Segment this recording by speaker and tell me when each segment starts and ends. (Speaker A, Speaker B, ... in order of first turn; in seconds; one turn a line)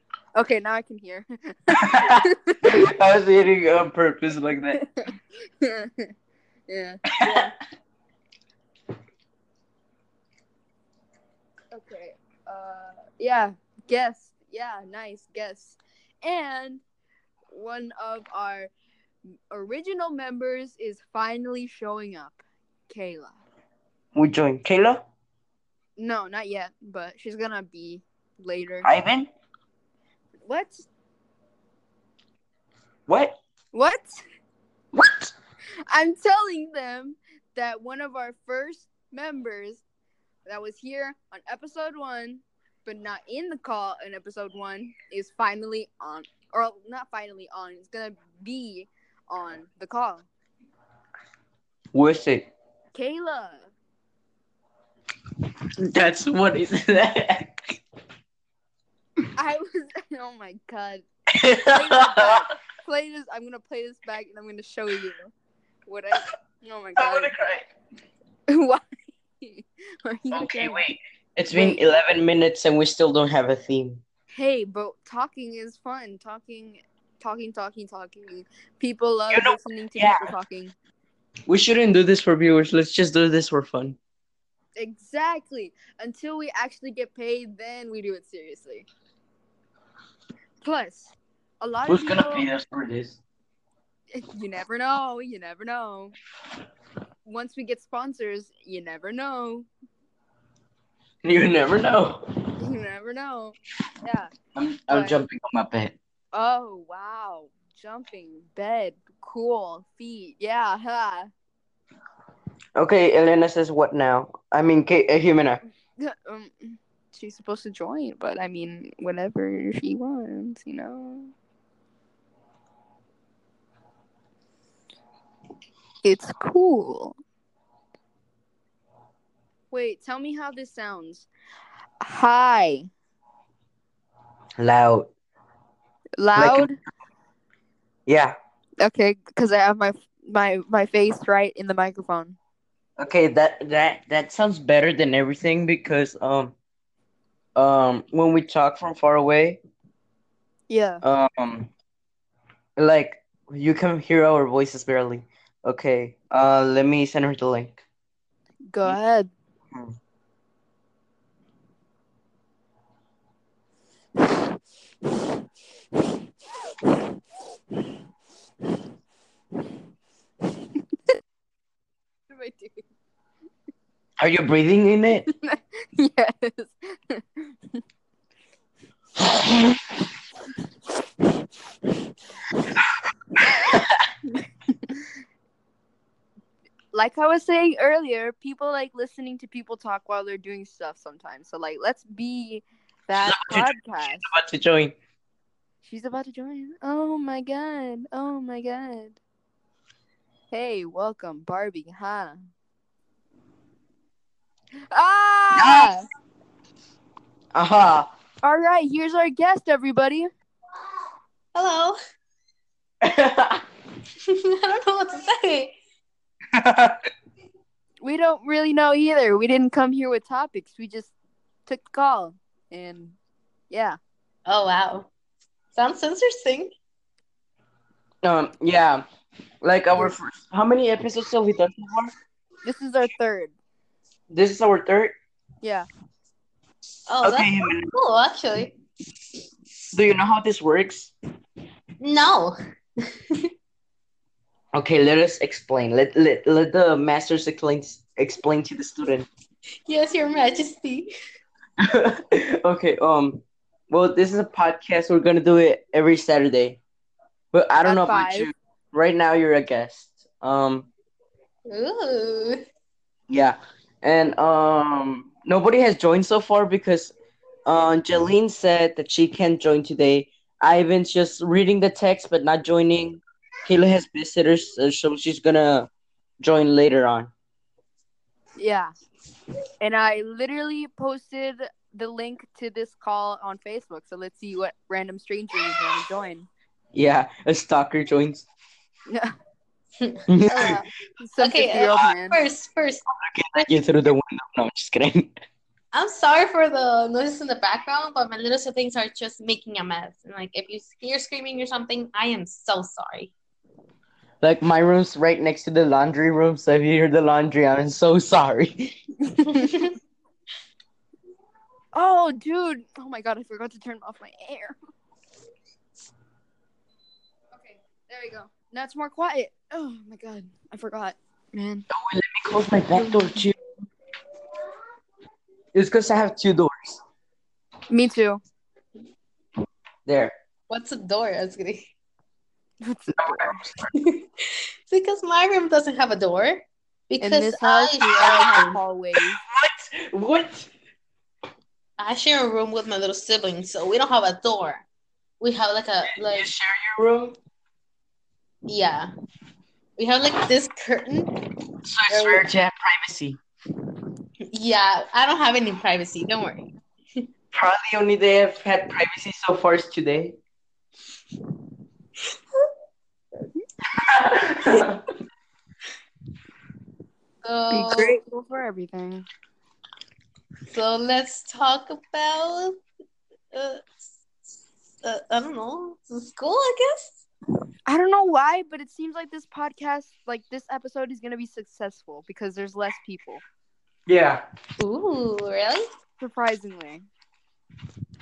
Speaker A: 0.3-2.7
Speaker B: 1.8-4.8
Speaker A: 4.8-5.1
Speaker A: 5.6-6.1
Speaker A: 6.7-7.5
Speaker B: 7.1-7.5
Speaker A: 11.7-16.8
Speaker A: 17.5-18.7
Speaker A: 19.5-23.4
Speaker B: 24.1-25.0
Speaker A: 26.0-28.9
Speaker B: 28.8-29.3
Speaker A: 30.5-30.9
Speaker B: 33.1-33.4
Speaker A: 33.7-34.2
Speaker B: 34.9-35.3
Speaker A: 35.9-39.8
Speaker A: 40.5-50.3
Speaker B: 51.9-52.5
Speaker A: 52.9-53.7
Speaker B: 55.8-57.8
Speaker A: 59.4-61.0
Speaker B: 61.3-62.4
Speaker A: 61.7-65.3
Speaker A: 65.9-67.3
Speaker B: 67.0-67.7
Speaker A: 68.5-68.8
Speaker A: 69.4-70.8
Speaker B: 70.3-74.0
Speaker A: 71.5-71.8
Speaker A: 74.3-80.7
Speaker B: 79.3-80.3
Speaker B: 81.5-84.0
Speaker A: 84.8-88.9
Speaker A: 90.6-92.5
Speaker B: 91.9-93.2
Speaker A: 94.1-96.2
Speaker A: 97.3-99.7
Speaker B: 101.2-102.2
Speaker A: 102.6-104.3
Speaker B: 104.5-106.0
Speaker A: 104.9-105.1
Speaker A: 106.3-111.3
Speaker B: 112.8-115.6
Speaker A: 116.0-121.3
Speaker A: 126.0-127.2
Speaker A: 129.7-131.3
Speaker A: 132.0-132.9
Speaker B: 134.6-135.1
Speaker A: 136.2-136.8
Speaker B: 136.3-136.8
Speaker B: 138.1-138.4
Speaker A: 138.8-142.4
Speaker B: 143.0-146.5
Speaker B: 147.6-149.6
Speaker A: 150.7-151.0
Speaker B: 151.0-151.7
Speaker B: 152.8-157.8
Speaker A: 158.7-159.3
Speaker A: 172.3-172.8
Speaker B: 174.2-175.3
Speaker A: 175.4-177.5
Speaker B: 182.8-184.1
Speaker A: 184.3-184.9
Speaker A: 186.9-194.3
Speaker B: 193.2-194.9
Speaker A: 195.8-199.2
Speaker A: 200.5-202.4
Speaker A: 204.9-206.1
Speaker B: 205.6-205.9
Speaker B: 207.5-208.1
Speaker A: 208.4-210.3
Speaker C: 211.5-212.0
Speaker B: 213.0-213.6
Speaker C: 214.3-215.8
Speaker B: 216.5-217.0
Speaker A: 218.0-221.1
Speaker A: 221.7-223.2
Speaker A: 223.7-224.0
Speaker C: 224.5-225.1
Speaker C: 225.7-226.7
Speaker B: 228.2-229.1
Speaker B: 229.6-232.1
Speaker A: 232.7-233.5
Speaker B: 234.3-235.2
Speaker A: 235.6-235.9
Speaker C: 237.1-238.7
Speaker B: 237.2-237.9
Speaker B: 239.9-241.1
Speaker C: 242.0-243.5
Speaker B: 244.7-249.3
Speaker C: 249.9-251.1
Speaker B: 251.8-256.8
Speaker B: 257.5-260.9
Speaker A: 257.8-258.5
Speaker C: 261.7-262.6
Speaker B: 263.3-267.1
Speaker B: 267.7-277.3
Speaker A: 278.6-278.9
Speaker A: 279.8-286.5
Speaker B: 286.9-288.5
Speaker C: 290.0-290.8
Speaker B: 290.3-290.8
Speaker A: 290.5-292.4
Speaker C: 291.4-293.7
Speaker B: 293.2-295.3
Speaker C: 295.9-303.3
Speaker B: 304.4-309.0
Speaker C: 309.5-309.9
Speaker A: 311.9-314.8
Speaker A: 317.6-321.9
Speaker B: 321.9-323.6
Speaker B: 325.7-327.0
Speaker A: 327.9-328.4
Speaker B: 330.1-330.4
Speaker C: 330.7-331.9
Speaker A: 332.8-333.6
Speaker B: 333.1-333.9
Speaker C: 333.9-338.8
Speaker A: 337.2-339.4
Speaker B: 339.2-340.7
Speaker C: 342.0-344.9
Speaker C: 345.4-346.5
Speaker B: 346.1-347.4
Speaker C: 348.7-349.1
Speaker C: 350.0-351.4
Speaker B: 351.8-353.4
Speaker C: 352.1-352.4
Speaker C: 354.5-357.2
Speaker B: 357.5-360.4
Speaker B: 363.9-365.0
Speaker C: 367.4-368.2
Speaker A: 367.7-369.2
Speaker C: 370.7-372.8
Speaker C: 373.5-373.9
Speaker C: 375.0-377.2
Speaker A: 377.9-383.4
Speaker B: 384.1-384.4
Speaker C: 384.8-385.9
Speaker A: 386.2-387.1